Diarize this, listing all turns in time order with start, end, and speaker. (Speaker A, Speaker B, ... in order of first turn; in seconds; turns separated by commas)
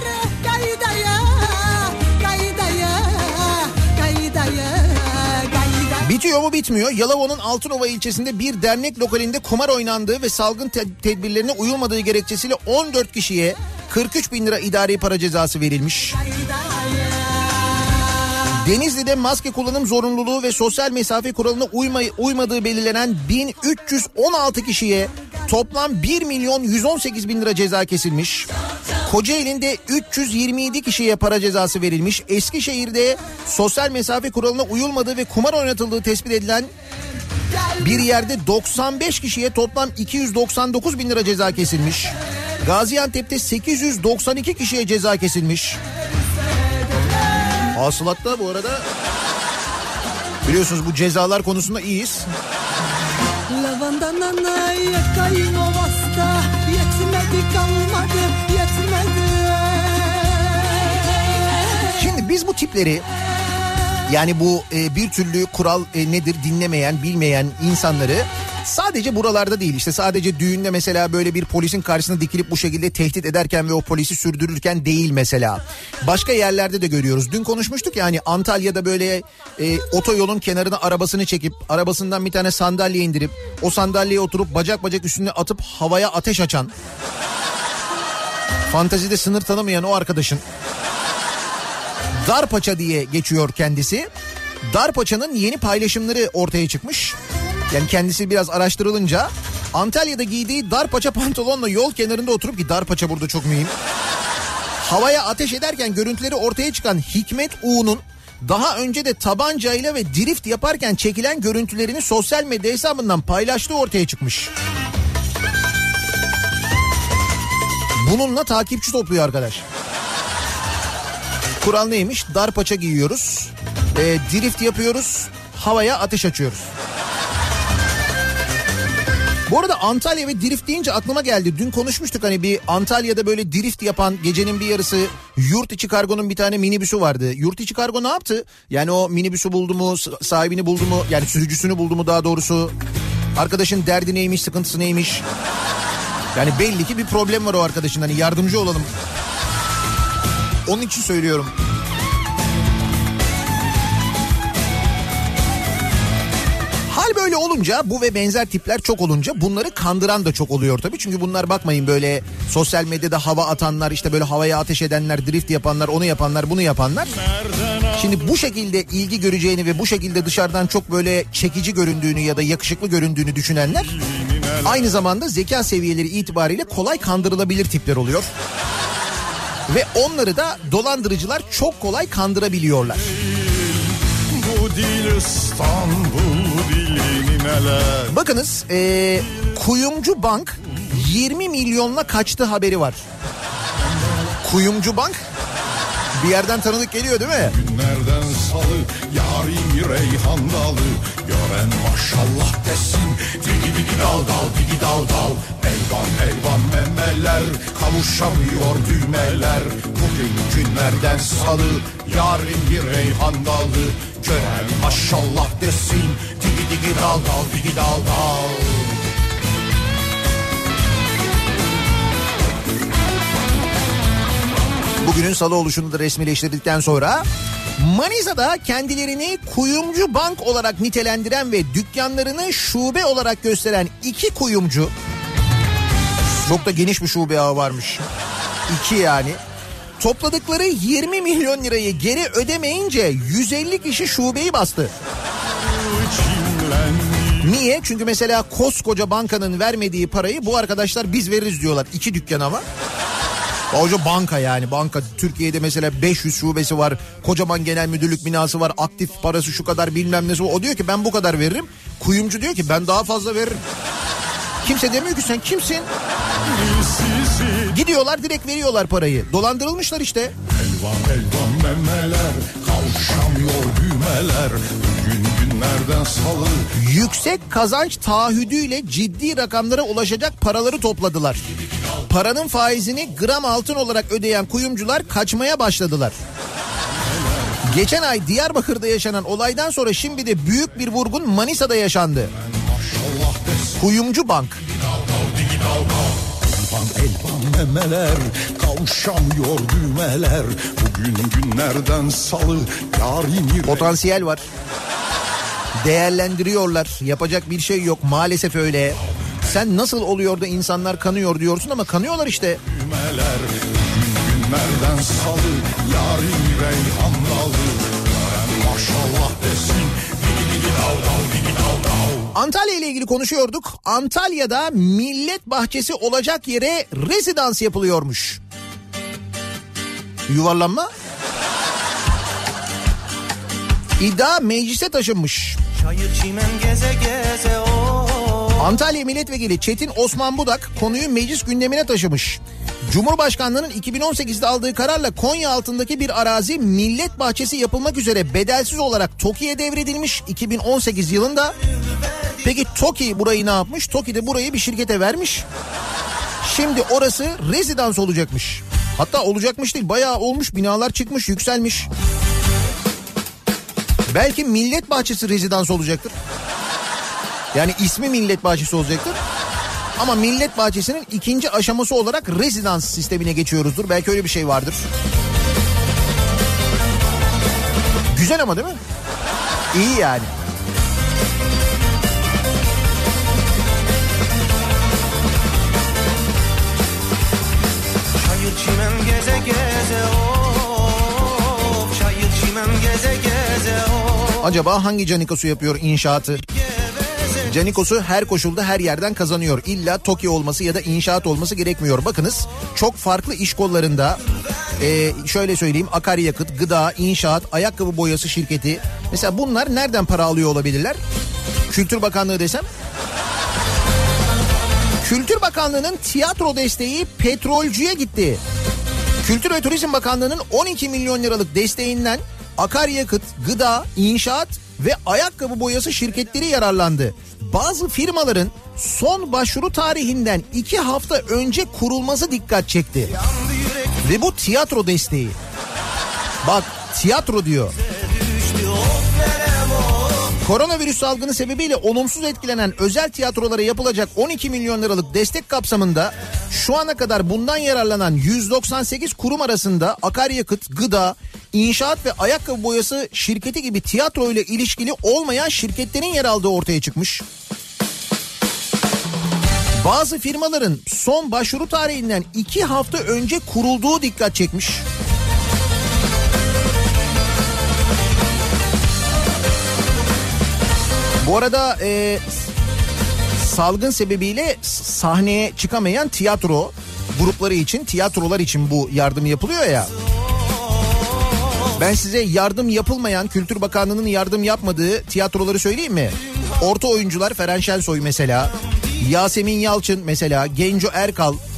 Speaker A: 0.2-5.8, Speaker B: 6.0-16.2, Speaker B: 18.5-28.5, Speaker B: 29.1-36.7, Speaker B: 37.8-45.8, Speaker B: 47.7-48.9, Speaker B: 50.5-52.3, Speaker A: 53.5-61.5, Speaker B: 61.9-63.0, Speaker B: 64.1-86.7, Speaker B: 88.7-90.4, Speaker B: 92.2-94.1, Speaker B: 94.7-97.2, Speaker B: 97.7-103.7, Speaker B: 104.8-114.5, Speaker B: 118.0-119.7, Speaker B: 121.6-126.7, Speaker B: 129.5-142.7, Speaker B: 143.4-145.2, Speaker B: 146.3-148.9, Speaker B: 150.7-151.5, Speaker B: 156.9-167.2, Speaker C: 167.3-168.0, Speaker B: 167.9-173.9, Speaker C: 174.0-174.9, Speaker B: 174.6-178.3, Speaker B: 179.7-183.1, Speaker C: 183.3-188.2, Speaker B: 188.1-193.0, Speaker B: 194.4-195.2, Speaker B: 196.2-197.6, Speaker C: 197.5-218.9, Speaker B: 225.0-227.3, Speaker B: 227.8-234.9, Speaker B: 236.4-238.1, Speaker B: 238.7-239.4, Speaker B: 240.0-244.9, Speaker C: 245.8-247.5, Speaker B: 247.4-252.6, Speaker B: 253.7-263.6, Speaker B: 264.6-265.9, Speaker C: 266.5-267.7, Speaker B: 267.7-270.3, Speaker C: 270.6-276.7, Speaker B: 276.8-281.4, Speaker B: 282.1-286.2, Speaker B: 287.7-292.3, Speaker C: 292.5-293.8, Speaker B: 293.8-294.6, Speaker C: 294.7-304.0, Speaker B: 303.6-304.5, Speaker B: 305.8-312.6, Speaker C: 312.7-322.3, Speaker B: 322.3-328.4, Speaker B: 330.3-330.9, Speaker B: 334.0-335.6, Speaker D: 335.8-338.7, Speaker B: 338.6-351.6, Speaker D: 351.8-352.4, Speaker B: 352.4-355.4, Speaker B: 356.4-361.9, Speaker B: 364.1-366.1, Speaker B: 367.5-369.2, Speaker B: 370.0-374.9, Speaker B: 378.1-378.8, Speaker B: 379.7-380.3, Speaker D: 388.2-394.5, Speaker B: 394.4-396.4, Speaker D: 396.5-397.6, Speaker B: 397.5-404.2, Speaker B: 404.8-411.0, Speaker B: 411.7-412.7, Speaker B: 415.0-418.4, Speaker B: 419.2-433.1, Speaker D: 433.2-434.0, Speaker B: 434.0-435.4, Speaker B: 436.4-437.8, Speaker D: 437.8-440.4, Speaker B: 440.4-457.2, Speaker B: 459.8-464.9, Speaker B: 471.2-472.3, Speaker B: 473.4-479.9, Speaker B: 481.8-491.4